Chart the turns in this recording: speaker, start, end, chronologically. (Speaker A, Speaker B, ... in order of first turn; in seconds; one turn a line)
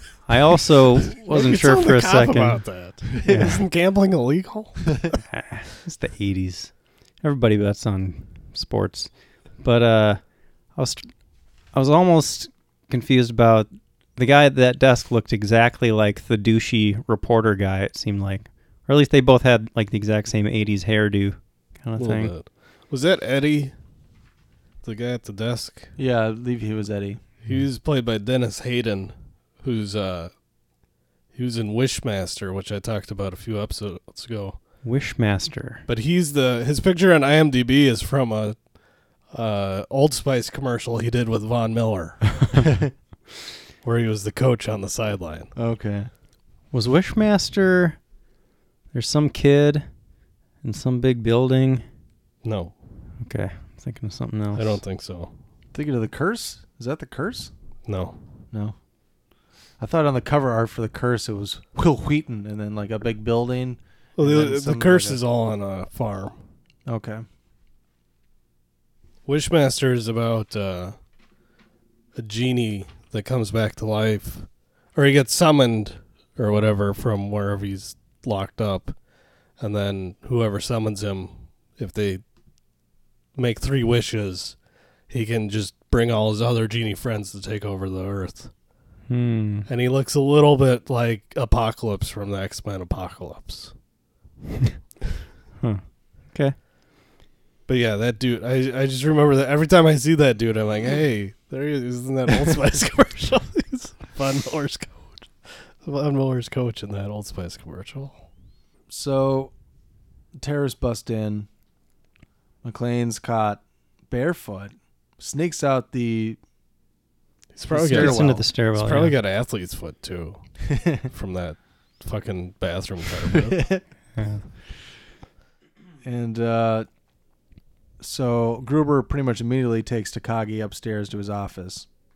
Speaker A: 0.2-3.6
Speaker B: 1.1-5.2
Speaker A: 5.3-11.1
Speaker A: 11.7-22.3
Speaker B: 22.0-23.7
Speaker B: 24.8-25.9
Speaker C: 26.0-27.2
Speaker B: 27.4-30.3
Speaker B: 31.3-34.6
Speaker A: 34.8-35.8
Speaker B: 35.9-42.5
Speaker B: 43.8-45.5
Speaker C: 45.5-46.1
Speaker A: 46.7-48.0
Speaker A: 48.9-49.9
Speaker A: 50.6-51.9
Speaker B: 52.4-52.7
Speaker A: 53.2-54.8
Speaker B: 54.5-55.3
Speaker C: 55.7-57.5
Speaker B: 57.9-58.2
Speaker C: 58.5-58.8
Speaker C: 59.8-65.2
Speaker B: 64.2-66.4
Speaker C: 66.8-67.2
Speaker B: 69.2-71.0
Speaker B: 72.1-79.0
Speaker B: 79.6-82.2
Speaker B: 83.3-84.6
Speaker B: 85.1-88.5
Speaker A: 89.1-89.7
Speaker B: 89.7-93.7
Speaker A: 95.6-96.5
Speaker B: 97.7-108.2
Speaker C: 108.9-109.5
Speaker C: 110.3-111.5
Speaker C: 112.6-116.4
Speaker B: 117.5-123.7
Speaker C: 117.7-118.4
Speaker A: 117.8-119.2
Speaker C: 120.7-121.0
Speaker C: 123.4-123.8
Speaker A: 124.2-124.4
Speaker C: 126.0-126.9
Speaker C: 128.0-131.9